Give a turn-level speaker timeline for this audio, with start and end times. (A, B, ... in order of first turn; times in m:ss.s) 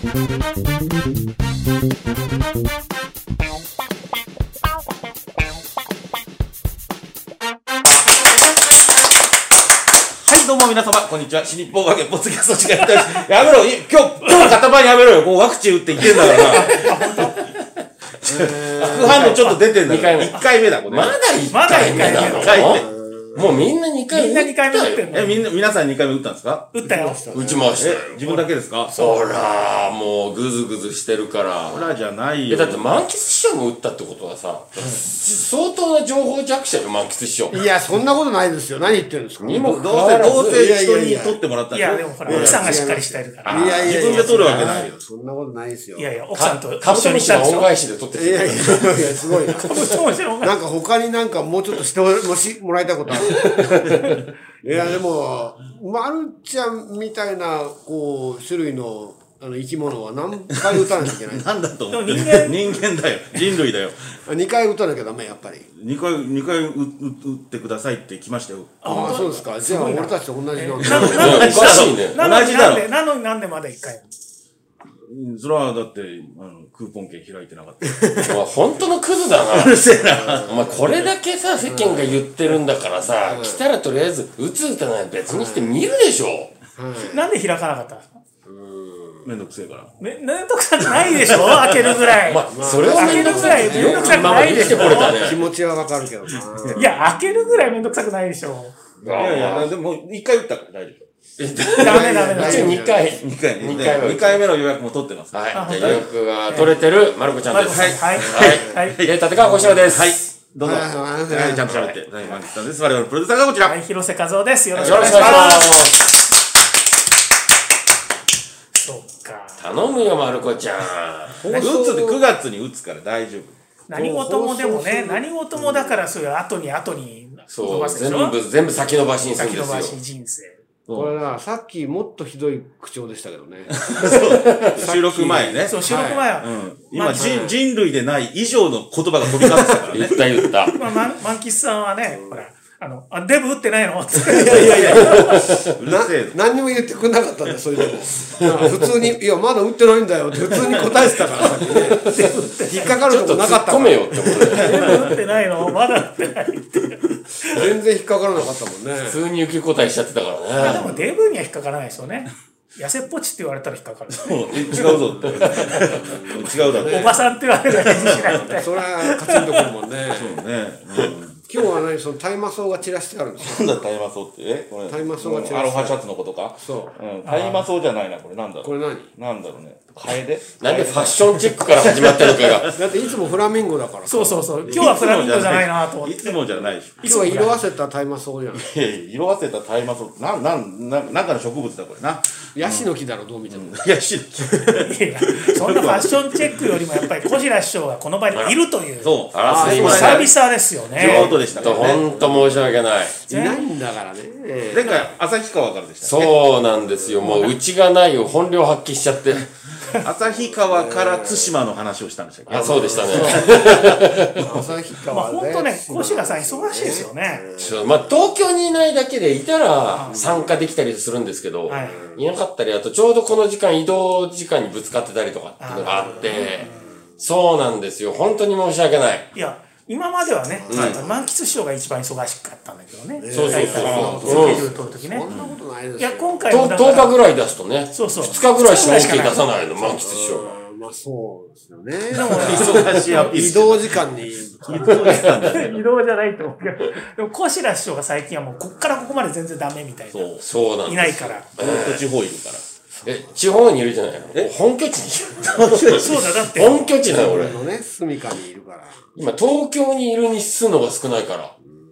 0:10.2-0:17.5 A
0:16.5-0:17.4 B
0:18.2-0:22.9 A
0:18.2-0:19.4 C
0:18.8-0:25.2 D
0:19.3-0:19.6 B
0:21.5-0:22.7 B
0:22.6-0:23.7 C
0:24.1-0:25.4 B
0:25.1-0:26.7 A
0:26.7-0:27.2 B
0:26.8-0:27.8 C
0:27.3-0:28.2 D
0:27.8-0:29.0 A
0:28.9-0:31.9 D
0:29.0-0:29.3 B
0:31.7-0:32.8 A
0:32.5-0:37.6 D
0:37.5-0:39.7 C
0:39.4-0:40.6 D
0:39.5-0:42.9 A
0:40.4-0:41.4 C
0:41.7-0:43.6 B
0:42.2-0:46.1 C
0:43.4-0:44.7 D
0:43.5-0:44.9 A
0:46.0-0:47.7 B
0:46.3-0:49.7 D
0:48.1-0:53.9 C
0:49.7-0:50.5 B
0:53.5-0:53.9 D
0:53.8-0:54.1 A
0:54.6-1:01.5 C
1:00.6-1:04.0 A
1:01.9-1:02.7 B
1:04.3-1:05.7 C
1:05.7-1:09.4 A
1:08.8-1:14.1 B
1:08.8-1:11.7 C
1:10.8-1:12.8 A
1:10.9-1:12.2 D
1:15.0-1:18.4 A
1:18.2-1:19.8 D
1:19.5-1:21.1 A
1:20.0-1:20.8 C
1:20.4-1:26.5 D
1:21.6-1:22.2 C
1:23.3-1:23.6 C
1:25.3-1:25.8 C
1:26.8-1:27.2 C
1:27.0-1:28.1 B
1:28.4-1:29.3 C
1:29.2-1:29.9 A
1:30.0-1:35.4 B
1:31.1-1:31.7 A
1:32.2-1:35.4 D
1:32.5-1:37.3 C
1:34.6-1:35.0 A
1:36.5-1:36.8 A
1:36.7-1:38.8 B
1:39.0-1:39.7 D
1:39.1-1:39.6 C
1:39.1-1:41.1 A
1:41.4-1:44.5 D
1:41.8-1:42.8 B
1:41.8-1:44.1 C
1:43.2-1:46.0 A
1:45.3-1:50.1 D
1:45.5-1:46.7 B
1:47.5-1:49.0 B
1:47.6-1:53.8 A
1:48.2-1:48.8 C
1:50.6-1:51.8 C
1:51.6-1:52.0 D
1:53.6-1:55.8 B
1:54.7-1:55.7 A
1:54.8-1:56.1 D
1:58.7-1:59.7 B
1:59.6-2:01.4 D
2:01.4-2:02.2 C
2:01.5-2:03.6 A
2:03.9-2:08.3 B
2:03.9-2:06.0 C
2:07.5-2:10.0 D
2:09.3-2:10.6 B
2:10.9-2:11.2 D
2:10.9-2:14.2 C
2:13.7-2:15.8 A
2:14.0-2:14.9 D
2:14.8-2:16.3 C
2:15.7-2:17.3 B
2:16.4-2:20.3 A
2:17.1-2:17.6 C
2:19.9-2:20.8 D
2:20.7-2:25.4 B
2:22.1-2:22.4 C
2:24.2-2:35.0 C
2:24.4-2:26.4 A
2:24.9-2:25.7 D
2:28.4-2:28.7 D
2:31.7-2:32.3 D
2:32.0-2:32.9 B
2:33.0-2:34.9 D
2:34.5-2:37.6 B
2:37.5-2:39.2 C
2:39.1-2:41.0 D
2:40.6-2:44.9 B
2:44.1-2:47.2 A
2:45.9-2:47.2 C
2:46.8-2:49.7 B
2:47.8-2:48.4 A
2:47.8-2:50.4 C
2:50.1-2:51.4 A
2:51.5-2:53.7 C
2:53.4-3:02.8 A
2:54.9-2:56.0 C
2:56.6-2:57.0 C
2:57.2-2:57.7 B
2:58.6-2:59.1 C
3:00.6-3:02.7 D
3:02.7-3:04.9 C
3:04.1-3:06.4 B
3:04.6-3:07.3 A
3:07.0-3:07.6 B
3:07.0-3:08.7 C
3:08.5-3:12.9 A
3:12.5-3:13.8 C
3:13.5-3:16.9 A
3:14.8-3:21.3 B
3:19.0-3:20.3 A
3:19.3-3:20.3 D
3:19.4-3:20.2 C
3:21.0-3:22.0 A
3:21.0-3:23.2 D
3:21.0-3:22.7 C
3:23.2-3:25.1 C
3:23.3-3:23.6 B
3:24.7-3:26.3 A
3:26.0-3:29.5 D
3:27.1-3:27.4 C
3:27.2-3:27.5 B
3:29.9-3:34.0 A
3:30.7-3:31.5 C
3:32.5-3:34.5 D
3:32.5-3:38.2 C
3:35.1-3:37.4 B
3:37.6-3:49.3 D
3:39.9-3:40.2 B
3:40.1-3:40.5 C
3:41.7-3:42.0 B
3:41.8-3:42.2 C
3:45.6-3:46.9 B
3:45.9-3:47.0 C
3:49.3-3:55.2 B
3:50.6-3:51.2 C
3:50.7-3:51.0 D
3:50.7-3:51.0 A
3:53.2-3:56.5 C
3:53.3-3:54.7 D
3:53.8-3:54.5 A
3:55.3-3:55.6 A
3:56.0-3:57.1 B
3:56.5-4:00.5 D
3:57.9-3:59.5 B
4:00.0-4:05.2 C
4:02.1-4:03.4 B
4:02.2-4:04.0 A
4:04.6-4:05.8 A
4:05.1-4:05.3 D
4:05.5-4:11.5 B
4:10.1-4:10.4 A
4:10.4-4:12.0 D
4:11.6-4:12.6 A
4:13.0-4:17.6 D
4:15.5-4:16.5 A
4:15.9-4:16.9 B
4:17.1-4:19.1 C
4:17.1-4:17.5 A
4:19.2-4:21.5 D